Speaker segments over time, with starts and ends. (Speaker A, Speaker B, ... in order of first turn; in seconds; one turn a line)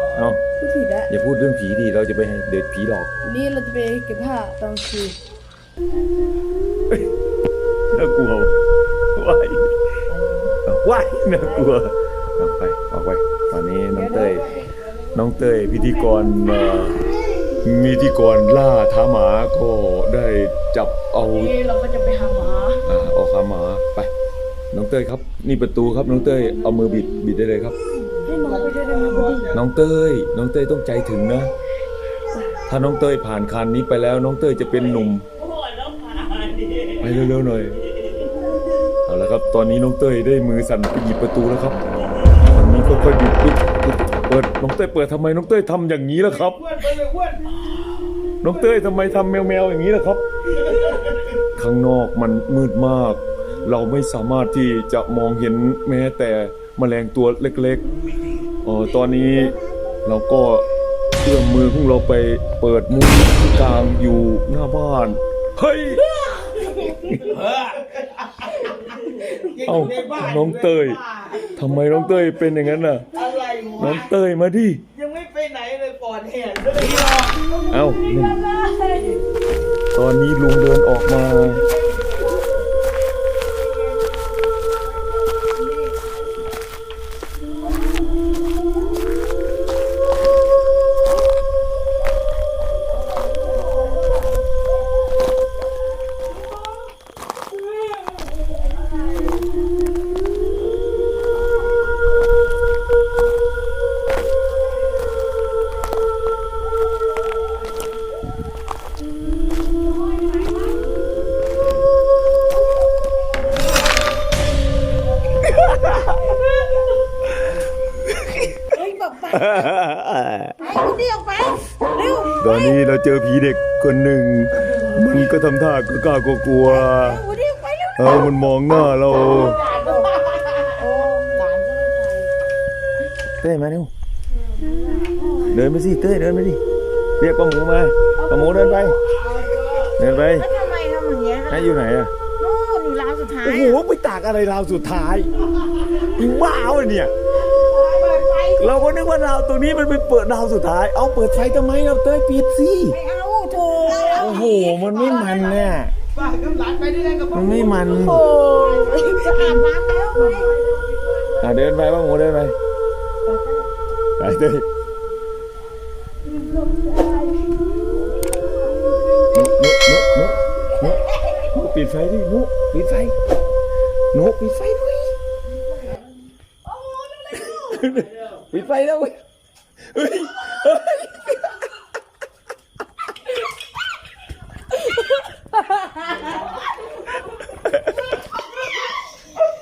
Speaker A: 0.1-0.4
Speaker B: 0.6-1.1
Speaker A: 1.1-3.1
Speaker B: 3.2-5.2
Speaker A: 7.9-8.6
Speaker A: 9.2-9.7
Speaker A: 10.7-14.5
Speaker B: 13.9-14.6
Speaker A: 15.1-17.0
Speaker A: 17.6-21.6
Speaker B: 21.2-22.8
Speaker A: 22.9-24.1
Speaker A: 24.7-27.8
Speaker B: 28.2-29.5
Speaker C: 28.3-29.6
Speaker A: 29.5-31.5
Speaker B: 32.3-32.6
Speaker A: 32.7-35.2
Speaker D: 35.6-36.9
Speaker A: 37.0-37.8
Speaker A: 39.1-41.8
Speaker A: 42.4-46.6
Speaker C: 46.3-47.4
Speaker A: 48.4-50.2
Speaker A: 51.5-57.9
Speaker A: 58.6-60.7
Speaker A: 61.2-66.1
Speaker A: 66.8-67.3
Speaker C: 69.4-71.5
Speaker A: 69.6-71.0
Speaker A: 71.5-73.1
Speaker C: 73.2-74.1
Speaker A: 73.8-74.8
Speaker C: 75.0-77.3
Speaker A: 77.7-78.5
Speaker B: 78.5-79.1
Speaker A: 79.9-81.7
Speaker C: 81.7-82.1
Speaker A: 115.5-116.0
Speaker A: 118.3-118.6
Speaker B: 118.7-119.5
Speaker A: 119.3-120.6
Speaker B: 120.6-122.5
Speaker A: 122.4-127.2
Speaker B: 127.3-128.0
Speaker A: 128.0-129.6
Speaker C: 129.3-132.2
Speaker A: 133.4-133.9
Speaker B: 134.8-135.6
Speaker A: 135.5-136.6
Speaker A: 137.2-139.0
Speaker B: 138.2-138.9
Speaker C: 139.6-139.9
Speaker A: 140.0-140.5
Speaker D: 140.4-141.1
Speaker C: 141.2-141.8
Speaker A: 141.5-142.1
Speaker D: 142.4-143.2
Speaker C: 143.3-143.8
Speaker A: 143.4-145.3
Speaker A: 146.1-147.1
Speaker C: 147.9-148.6
Speaker B: 148.0-148.6
Speaker A: 148.6-153.0
Speaker B: 152.9-154.4
Speaker C: 153.8-160.5
Speaker A: 154.1-155.9
Speaker A: 157.3-158.2
Speaker B: 158.2-160.5
Speaker A: 161.4-162.6
Speaker B: 163.3-163.7
Speaker A: 164.2-164.7
Speaker B: 166.3-167.4
Speaker A: 169.3-173.2
Speaker A: 174.1-175.2
Speaker B: 177.1-177.5
Speaker A: 177.5-179.2
Speaker A: 179.9-181.5
Speaker A: 187.6-187.8